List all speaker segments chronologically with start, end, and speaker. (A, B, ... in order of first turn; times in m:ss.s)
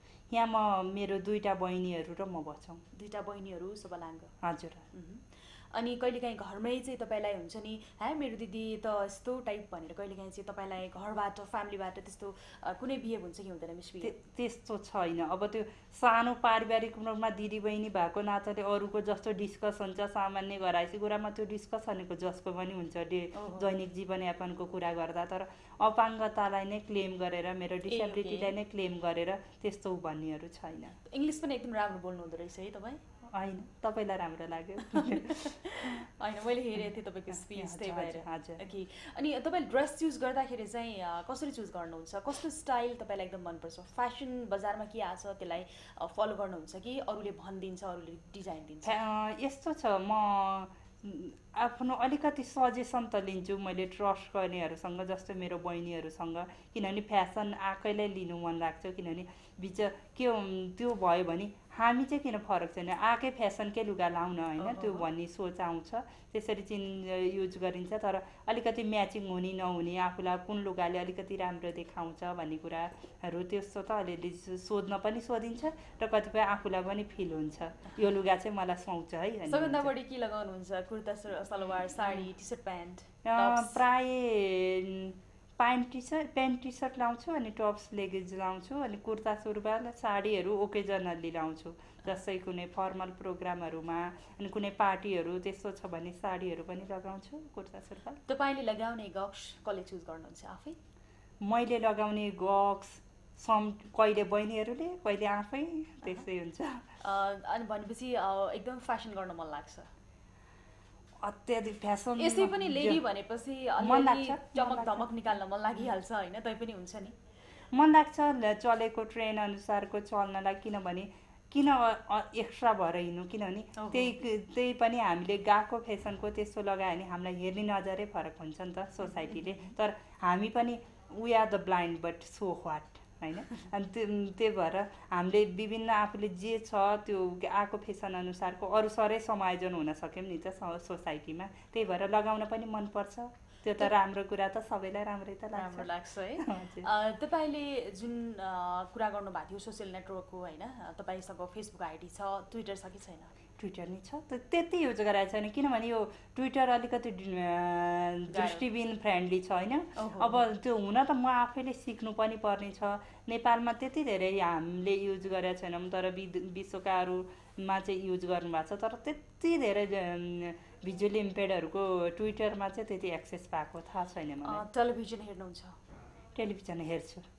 0:00.3-0:02.8 A
0:02.9-0:04.3 B
0:04.4-0:04.9 A
0:04.9-0:14.2 B
0:14.0-0:31.0 A
0:23.3-0:23.7 B
0:27.9-0:28.6 B
0:31.1-0:33.0 B
0:33.3-0:36.0 A
0:34.8-0:48.9 B
0:37.3-0:38.6 A
0:48.8-1:19.9 A
1:04.6-1:05.1 B
1:19.5-1:23.8 B
1:23.2-1:38.2 A
1:38.3-1:40.8 B
1:41.4-1:46.8 A
1:47.0-1:49.9 B
1:51.2-1:53.0 A
1:52.2-1:57.1 B
1:53.8-1:55.1 A
1:57.7-2:26.9 A
2:03.8-2:04.1 B
2:09.2-2:09.7 B
2:25.5-2:33.3 B
2:33.6-2:54.6 A
2:38.3-2:38.6 B
2:40.0-2:40.5 B
2:54.4-2:55.7 B
2:56.4-2:57.3 A